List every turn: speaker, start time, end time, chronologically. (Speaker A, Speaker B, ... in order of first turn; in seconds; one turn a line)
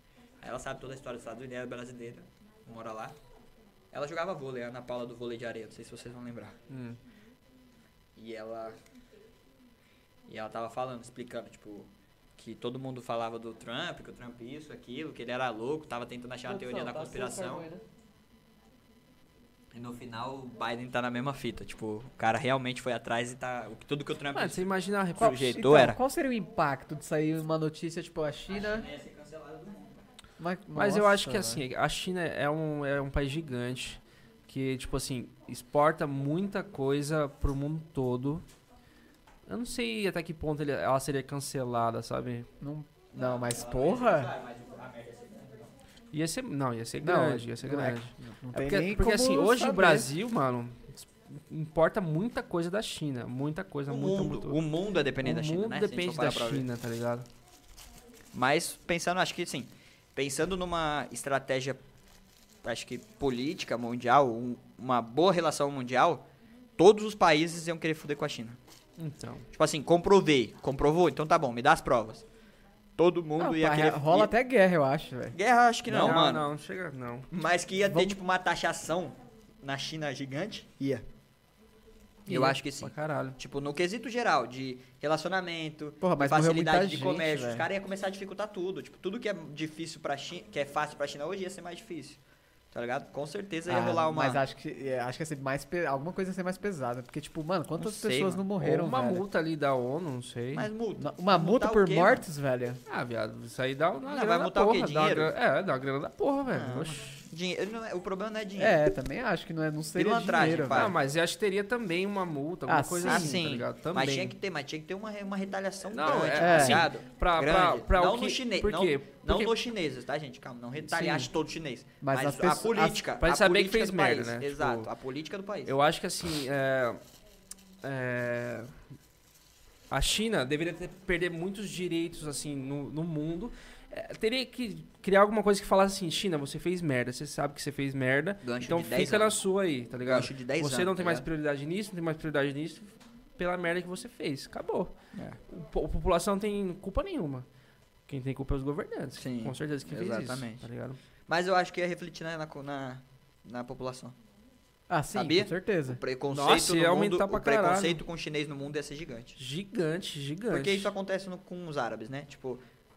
Speaker A: 0.4-3.2
Speaker A: 3.9-6.6
Speaker B: 6.7-7.0
Speaker A: 8.2-8.8
Speaker A: 10.3-17.7
Speaker C: 16.4-17.8
Speaker A: 19.7-24.6
Speaker B: 24.3-25.6
Speaker A: 25.1-26.0
Speaker C: 25.4-28.9
Speaker A: 28.5-30.0
Speaker C: 30.4-31.6
Speaker B: 30.7-38.5
Speaker B: 39.5-42.5
Speaker C: 42.6-44.3
Speaker A: 43.1-45.7
Speaker B: 46.1-54.6
Speaker C: 47.0-50.1
Speaker A: 53.9-56.6
Speaker B: 55.2-57.3
Speaker A: 58.3-61.8
Speaker A: 62.6-66.2
Speaker A: 66.8-68.6
Speaker B: 69.0-69.5
Speaker A: 69.5-72.2
Speaker A: 73.0-74.3
Speaker C: 73.4-75.3
Speaker A: 75.3-76.5
Speaker B: 75.9-77.3
Speaker A: 77.3-81.0
Speaker C: 77.9-78.2
Speaker C: 82.3-82.6
Speaker A: 82.3-92.2
Speaker B: 82.3-83.4
Speaker C: 86.0-87.7
Speaker A: 92.7-94.4
Speaker C: 93.7-99.2
Speaker A: 97.8-98.4
Speaker B: 98.6-100.7
Speaker A: 100.5-102.2
Speaker C: 101.0-102.8
Speaker B: 102.9-107.2
Speaker A: 104.1-105.3
Speaker A: 106.5-108.8
Speaker C: 108.6-110.9
Speaker A: 109.9-111.0
Speaker B: 110.7-114.3
Speaker C: 112.7-113.4
Speaker A: 113.0-125.7
Speaker B: 115.9-119.5
Speaker C: 116.3-116.9
Speaker B: 120.8-121.3
Speaker C: 122.0-123.0
Speaker B: 123.2-124.9
Speaker B: 125.6-127.0
Speaker B: 127.8-128.8
Speaker B: 129.9-145.0
Speaker A: 138.4-139.4
Speaker A: 140.1-141.2
Speaker A: 145.1-145.4
Speaker B: 145.5-147.5
Speaker B: 148.1-151.0
Speaker A: 149.2-150.6
Speaker A: 151.3-154.2
Speaker C: 154.9-156.0
Speaker A: 155.1-159.4
Speaker B: 156.3-158.0
Speaker B: 159.4-160.9
Speaker A: 160.5-162.6